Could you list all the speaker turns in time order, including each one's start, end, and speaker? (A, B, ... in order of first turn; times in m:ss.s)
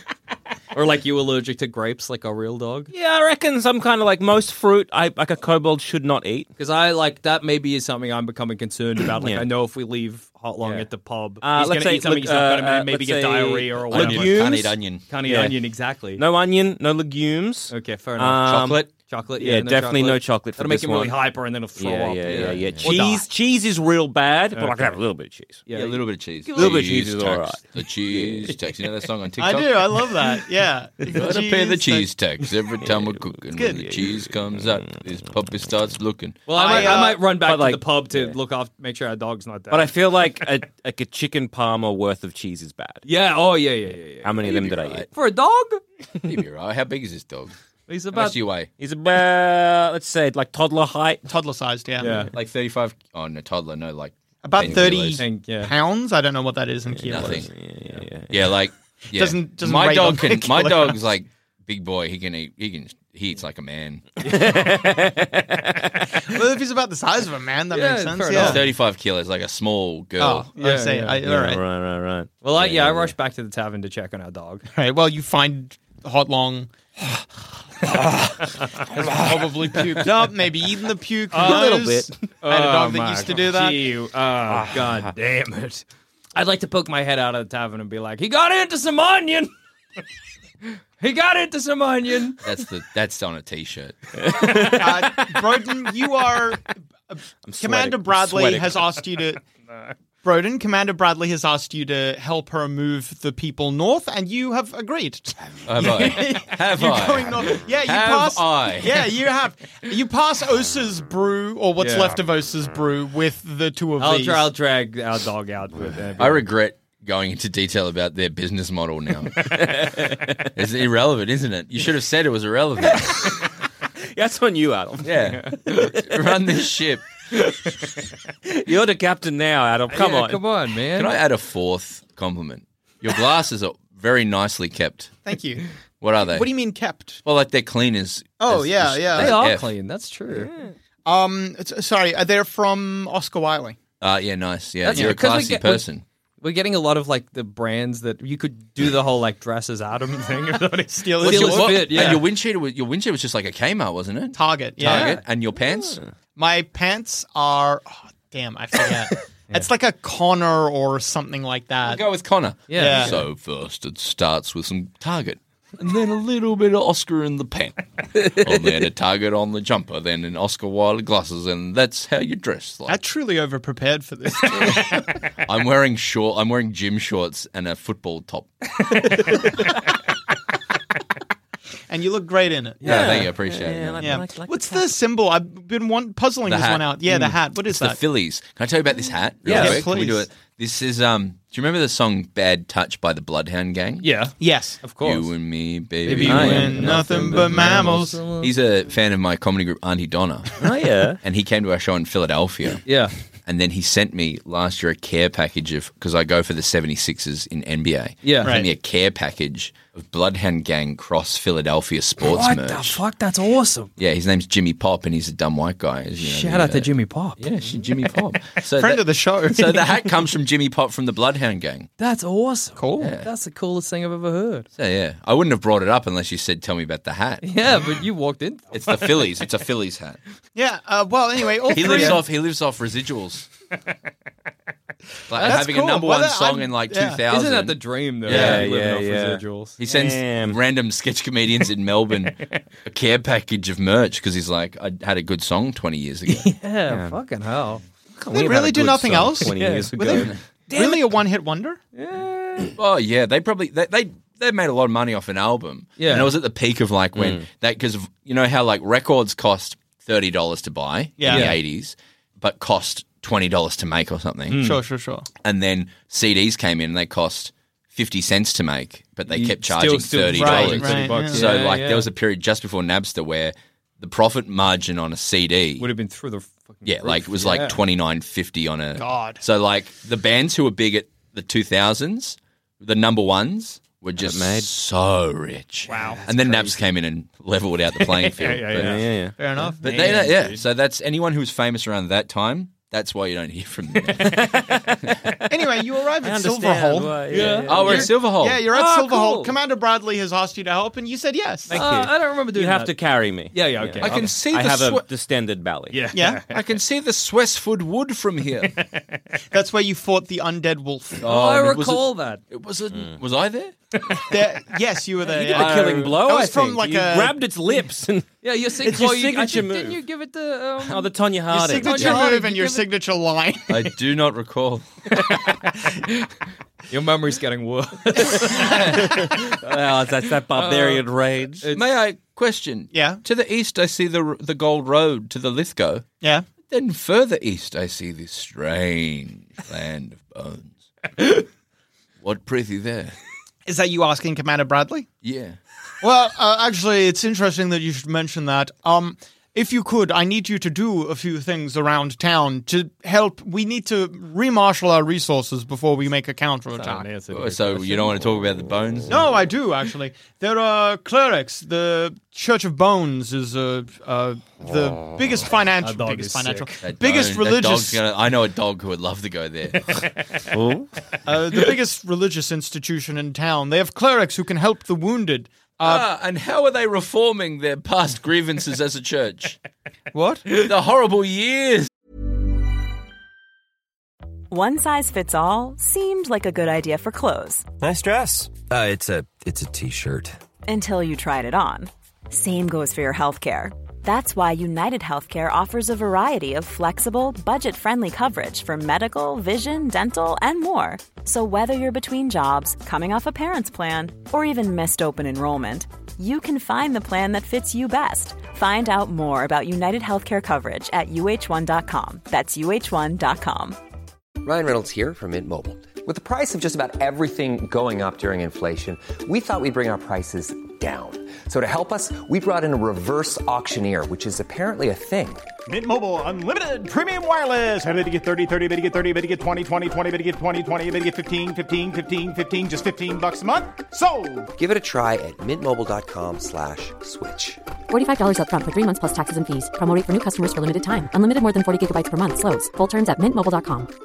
0:00.7-0:02.9 A
0:02.9-0:06.5 B
0:06.6-0:16.2 A
0:09.0-0:09.5 B
0:10.6-0:25.7 B
0:13.9-0:15.0 C
0:17.7-0:23.3 A
0:18.5-0:18.8 C
0:22.2-0:22.9 C
0:24.5-0:25.0 A
0:25.7-0:27.0 A
0:25.7-0:30.0 C
0:26.5-0:28.5 B
0:29.4-0:32.1 D
0:31.1-0:36.5 C
0:32.8-0:34.3 B
0:36.5-0:40.3 A
0:36.5-0:37.2 D
0:36.7-0:38.4 B
0:39.7-0:43.0 B
0:43.0-0:45.8 A
0:44.2-0:45.1 B
0:44.4-0:45.1 C
0:46.2-0:47.5 C
0:47.9-0:48.4 A
0:48.1-0:48.7 C
0:48.8-0:51.2 B
0:51.3-0:52.3 D
0:52.0-0:52.3 A
0:52.3-0:55.2 C
0:54.4-0:57.5 D
0:55.2-0:55.7 A
0:57.0-0:58.5 B
0:57.1-0:57.5 C
0:58.3-1:04.1 C
0:59.1-1:01.0 D
1:04.2-1:06.1 B
1:06.3-1:08.6 D
1:07.7-1:08.7 A
1:08.3-1:10.5 C
1:10.2-1:11.6 D
1:10.6-1:11.2 A
1:11.2-1:13.1 B
1:12.4-1:14.6 A
1:14.7-1:16.7 D
1:18.2-1:20.2 A
1:19.0-1:23.9 D
1:21.3-1:29.5 A
1:21.4-1:22.3 B
1:24.5-1:25.1 B
1:31.0-1:32.4 A
1:32.4-1:34.0 C
1:34.2-1:35.4 B
1:34.7-1:39.4 D
1:37.4-1:39.0 B
1:40.2-1:54.5 D
1:45.7-1:49.1 C
1:51.8-1:52.2 A
1:54.0-1:56.5 A
1:56.2-1:59.6 C
1:59.4-2:00.4 B
2:00.5-2:03.2 C
2:03.0-2:03.3 B
2:04.1-2:06.2 B
2:05.0-2:07.1 C
2:07.3-2:07.9 B
2:08.5-2:10.4 B
2:09.9-2:11.2 A
2:11.0-2:15.2 C
2:15.2-2:15.6 D
2:16.0-2:16.5 C
2:16.3-2:17.2 D
2:17.2-2:19.7 C
2:18.4-2:19.3 D
2:19.1-2:20.5 A
2:20.4-2:20.7 B
2:21.1-2:23.8 D
2:24.0-2:26.0 C
2:24.8-2:25.9 A
2:26.4-2:32.3 A
2:30.9-2:32.1 D
2:31.2-2:36.0 C
2:34.3-2:35.2 D
2:34.8-2:35.2 A
2:36.4-2:42.0 D
2:41.8-2:53.0 C
2:42.7-2:43.2 A
2:42.7-2:43.2 D
2:52.9-2:55.1 D
2:55.4-2:59.2 C
3:01.9-3:03.1 D
3:02.8-3:04.2 C
3:02.8-3:04.9 B
3:02.9-3:03.2 A
3:04.0-3:08.0 D
3:06.5-3:07.0 C
3:07.1-3:07.4 A
3:07.7-3:14.1 C
3:09.4-3:09.9 A
3:09.5-3:10.3 D
3:14.0-3:15.3 A
3:14.4-3:14.8 D
3:15.0-3:20.6 C
3:16.0-3:18.5 A
3:16.1-3:17.7 B
3:16.3-3:18.2 D
3:20.6-3:21.2 B
3:21.2-3:22.8 C
3:22.9-3:23.1 A
3:23.5-3:33.0 C
3:28.2-3:28.6 A
3:32.2-3:33.9 A
3:34.0-3:41.9 C
3:36.2-3:37.4 A
3:38.8-3:39.9 D
3:42.0-3:44.7 A
3:42.8-3:43.1 D
3:43.0-3:43.3 C
3:44.8-3:47.5 C
3:47.4-3:49.3 A
3:48.7-3:50.2 C
3:50.6-3:52.2 D
3:51.7-3:52.2 A
3:51.7-3:53.5 C
3:55.3-3:58.7 C
3:55.4-3:57.2 D
3:57.3-3:59.8 A
3:58.3-4:00.6 B
3:59.8-4:06.5 C
4:06.3-4:07.8 A
4:06.9-4:07.2 B
4:08.2-4:10.3 B
4:08.3-4:11.8 D
4:09.4-4:11.1 A
4:12.0-4:12.7 A
4:12.8-4:24.7 C
4:16.0-4:16.3 A
4:17.2-4:17.4 B
4:21.2-4:21.5 D
4:21.3-4:21.6 A
4:24.5-4:24.8 A
4:24.5-4:25.3 D
4:25.4-4:35.9 C
4:29.3-4:32.1 A
4:30.4-4:31.5 D
4:35.8-4:37.8 A
4:36.8-4:49.0 C
4:39.0-4:39.4 D
4:44.2-4:44.7 B
4:45.9-4:46.8 A
4:48.0-4:50.6 A
4:48.8-4:49.4 B
4:49.4-4:49.8 D
4:49.8-4:55.3 C
4:54.2-4:55.0 B
4:55.5-5:01.9 D
4:56.2-4:58.1 B
4:57.3-4:58.1 A
4:57.4-4:58.6 C
4:58.7-4:59.6 B
5:01.7-5:06.0 B
5:01.7-5:04.4 A
5:04.0-5:05.1 C
5:05.9-5:06.7 A
5:06.1-5:06.4 D
5:06.5-5:08.8 C
5:08.6-5:09.2 A
5:09.5-5:11.2 D
5:11.2-5:13.7 C
5:11.2-5:12.4 A
5:14.3-5:17.4 D
5:15.3-5:20.0 B
5:15.5-5:16.1 C
5:18.4-5:21.2 A
5:20.8-5:22.2 B
5:21.5-5:23.9 D
5:21.7-5:22.9 A
5:23.7-5:24.9 C
5:26.9-5:31.1 A
5:28.6-5:28.9 C
5:29.0-5:31.7 B
5:31.6-5:32.0 A
5:31.7-5:36.0 C
5:32.9-5:33.2 D
5:36.7-5:41.4 C
5:42.2-5:43.2 C
5:43.7-5:45.1 D
5:45.2-5:45.6 C
5:46.0-5:57.1 D
5:56.7-5:58.2 A
5:57.3-5:59.2 C
5:59.1-6:08.0 D
6:05.8-6:06.7 A
6:06.8-6:10.0 C
6:10.5-6:10.9 B
6:11.2-6:16.1 D
6:15.8-6:19.6 C
6:20.1-6:20.4 D
6:20.6-6:21.9 C
6:24.5-6:27.7 E
6:30.7-6:53.8 E
6:54.4-7:05.5 F
7:05.7-7:14.5 G
7:14.6-7:17.6 F
7:17.9-7:23.9 H